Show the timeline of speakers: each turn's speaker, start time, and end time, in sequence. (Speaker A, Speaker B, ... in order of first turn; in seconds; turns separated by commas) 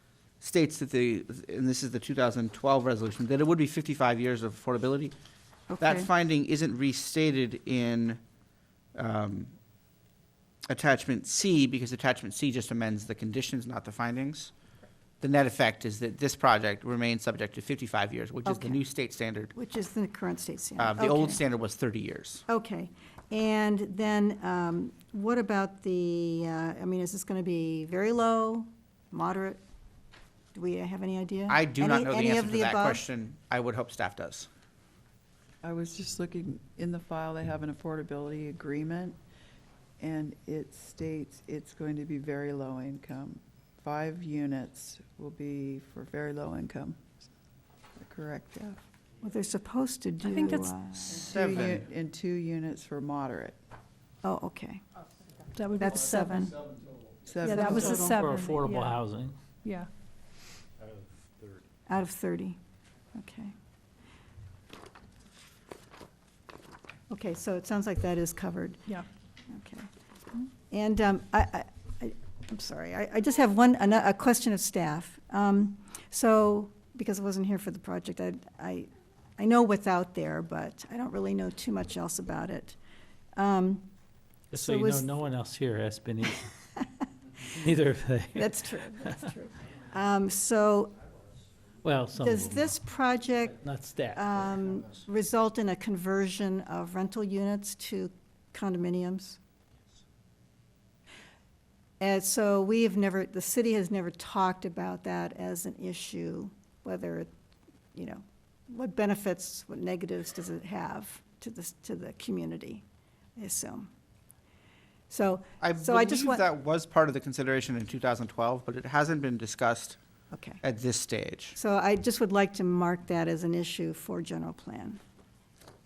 Speaker A: 0.4-5.1, Speaker B: 5.7-6.1, Speaker A: 5.8-8.2, Speaker A: 8.9-9.5, Speaker A: 10.7-14.5, Speaker A: 15.2-19.5, Speaker B: 18.4-18.8, Speaker B: 19.5-21.4, Speaker A: 20.8-22.4, Speaker B: 22.5-29.6, Speaker B: 30.5-33.0, Speaker A: 31.5-34.5, Speaker C: 35.6-39.2, Speaker C: 40.0-47.0, Speaker C: 48.0-48.8, Speaker B: 49.2-51.3, Speaker D: 50.2-50.7, Speaker C: 51.1-53.6, Speaker A: 51.1-51.9, Speaker B: 54.2-54.8, Speaker D: 55.5-56.5, Speaker B: 55.8-56.7, Speaker C: 57.3-58.1, Speaker D: 57.4-59.0, Speaker B: 57.5-58.2, Speaker E: 57.6-59.4, Speaker D: 59.6-59.9, Speaker B: 61.9-62.6, Speaker B: 63.1-63.5, Speaker B: 67.1-68.9, Speaker B: 69.5-82.8, Speaker B: 83.4-83.9, Speaker E: 84.5-86.5, Speaker B: 84.6-85.1, Speaker E: 87.4-89.3, Speaker B: 88.3-90.9, Speaker E: 91.8-92.8, Speaker B: 92.2-93.6, Speaker E: 93.6-94.3, Speaker B: 94.2-99.4, Speaker B: 102.0-107.3, Speaker B: 107.9-112.8, Speaker B: 113.4-113.9, Speaker B: 115.1-116.5, Speaker A: 115.6-120.0, Speaker B: 120.3-120.6, Speaker A: 120.6-121.6, Speaker B: 121.6-125.0